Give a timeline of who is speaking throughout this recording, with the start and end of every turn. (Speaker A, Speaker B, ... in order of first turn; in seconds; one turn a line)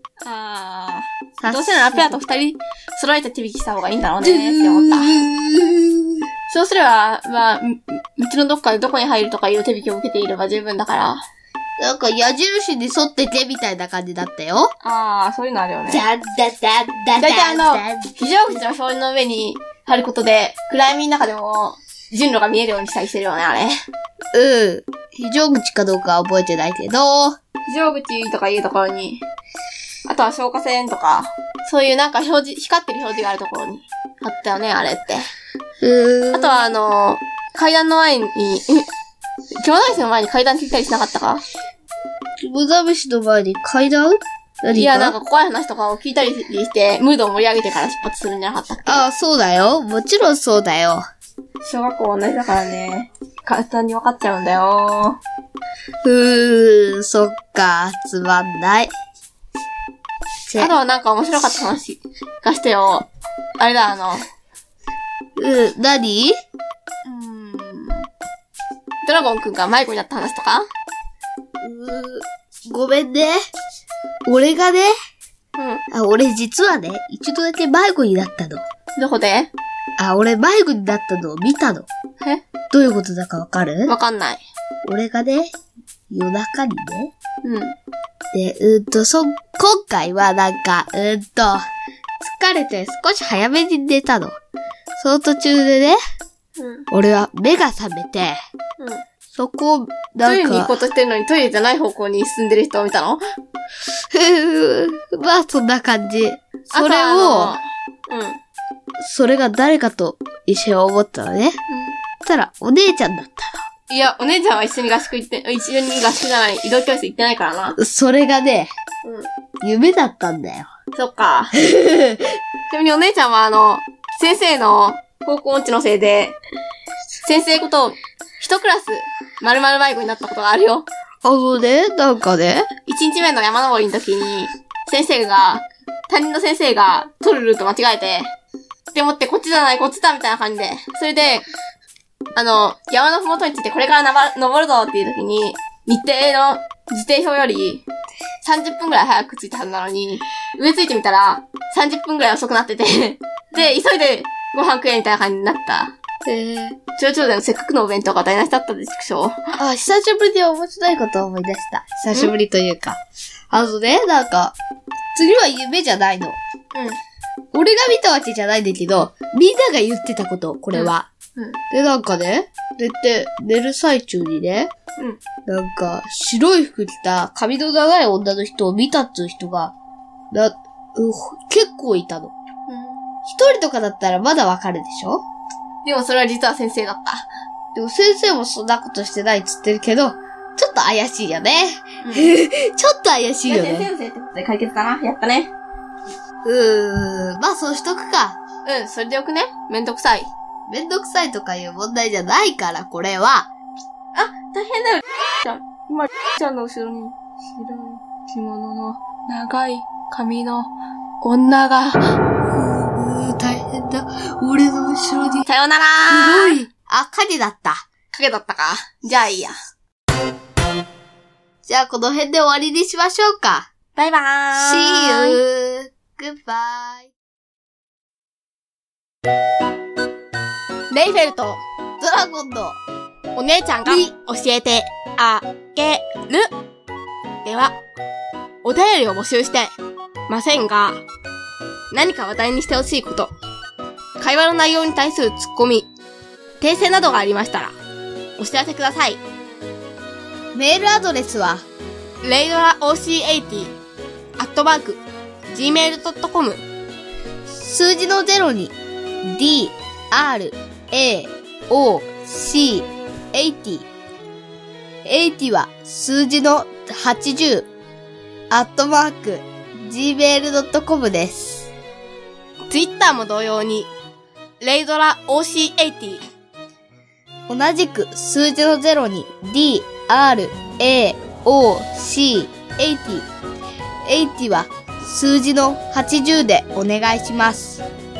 Speaker A: 0.2-5.2
Speaker B: 1.4-2.3
Speaker B: 4.2-6.2
Speaker A: 6.5-11.2
Speaker B: 11.8-14.7
Speaker A: 14.8-16.0
Speaker B: 15.9-18.6
Speaker A: 17.2-23.8
Speaker B: 24.3-27.4
Speaker A: 27.7-29.2
Speaker A: 30.1-35.3
Speaker B: 35.8-36.6
Speaker A: 36.3-38.9
Speaker A: 39.5-41.4
Speaker B: 42.4-45.2
Speaker A: 44.7-49.0
Speaker B: 48.9-51.0
Speaker A: 51.6-55.2
Speaker B: 56.0-58.9
Speaker B: 60.5-60.7
Speaker A: 60.6-63.0
Speaker A: 63.6-64.2
Speaker B: 65.3-66.3
Speaker A: 67.0-68.1
Speaker A: 69.0-70.6
Speaker B: 71.6-73.4
Speaker B: 74.2-74.9
Speaker A: 75.6-75.8
Speaker B: 75.9-78.6
Speaker A: 79.0-79.5
Speaker B: 80.0-81.9
Speaker B: 82.7-83.9
Speaker A: 83.9-84.4
Speaker B: 84.8-85.5
Speaker B: 86.1-87.1
Speaker A: 87.4-87.8
Speaker B: 88.3-91.6
Speaker B: 92.2-94.3
Speaker B: 94.9-96.0
Speaker A: 96.6-96.9
Speaker B: 96.9-98.4
Speaker B: 99.3-100.7
Speaker A: 100.2-103.2
Speaker B: 104.1-107.6
Speaker A: 106.7-108.4
Speaker B: 109.0-111.5
Speaker A: 111.7-112.0
Speaker B: 112.2-113.6
Speaker A: 113.9-117.8
Speaker B: 117.8-118.7
Speaker B: 119.6-120.7
Speaker A: 120.9-121.5
Speaker B: 121.6-122.3
Speaker A: 122.7-126.4
Speaker A: 127.2-130.9
Speaker B: 131.2-132.7
Speaker A: 132.9-138.3
Speaker A: 138.9-141.5
Speaker A: 142.3-147.8
Speaker A: 148.4-155.9
Speaker B: 156.2-156.8
Speaker A: 157.0-159.4
Speaker B: 159.6-164.6
Speaker B: 165.1-166.4
Speaker A: 166.7-167.0
Speaker B: 167.5-171.1
Speaker A: 170.7-171.6
Speaker B: 171.7-174.7
Speaker B: 175.5-179.7
Speaker B: 180.3-182.3
Speaker A: 182.7-183.1
Speaker B: 183.3-185.2
Speaker A: 185.8-187.2
Speaker B: 187.7-193.9
Speaker A: 192.0-192.3
Speaker A: 193.5-195.5
Speaker B: 196.4-198.4
Speaker A: 198.6-200.3
Speaker B: 200.7-203.5
Speaker A: 204.1-210.7
Speaker A: 211.2-212.0
Speaker B: 212.5-215.5
Speaker A: 215.4-216.6
Speaker B: 216.1-217.8
Speaker A: 218.1-219.5
Speaker B: 221.6-223.7
Speaker A: 223.9-225.4
Speaker B: 224.5-227.1
Speaker A: 230.9-231.6
Speaker B: 232.0-232.8
Speaker A: 233.3-236.5
Speaker B: 233.8-234.1
Speaker A: 237.4-237.8
Speaker A: 238.6-239.7
Speaker A: 240.3-241.0
Speaker A: 241.9-243.3
Speaker A: 244.2-245.9
Speaker A: 246.6-247.7
Speaker A: 248.4-249.2
Speaker B: 250.5-251.7
Speaker A: 252.2-253.7
Speaker A: 254.4-256.6
Speaker B: 257.5-263.9
Speaker B: 265.0-267.7
Speaker B: 268.5-271.7
Speaker A: 272.7-273.9
Speaker A: 274.6-276.2
Speaker B: 277.5-283.3
Speaker B: 284.0-287.9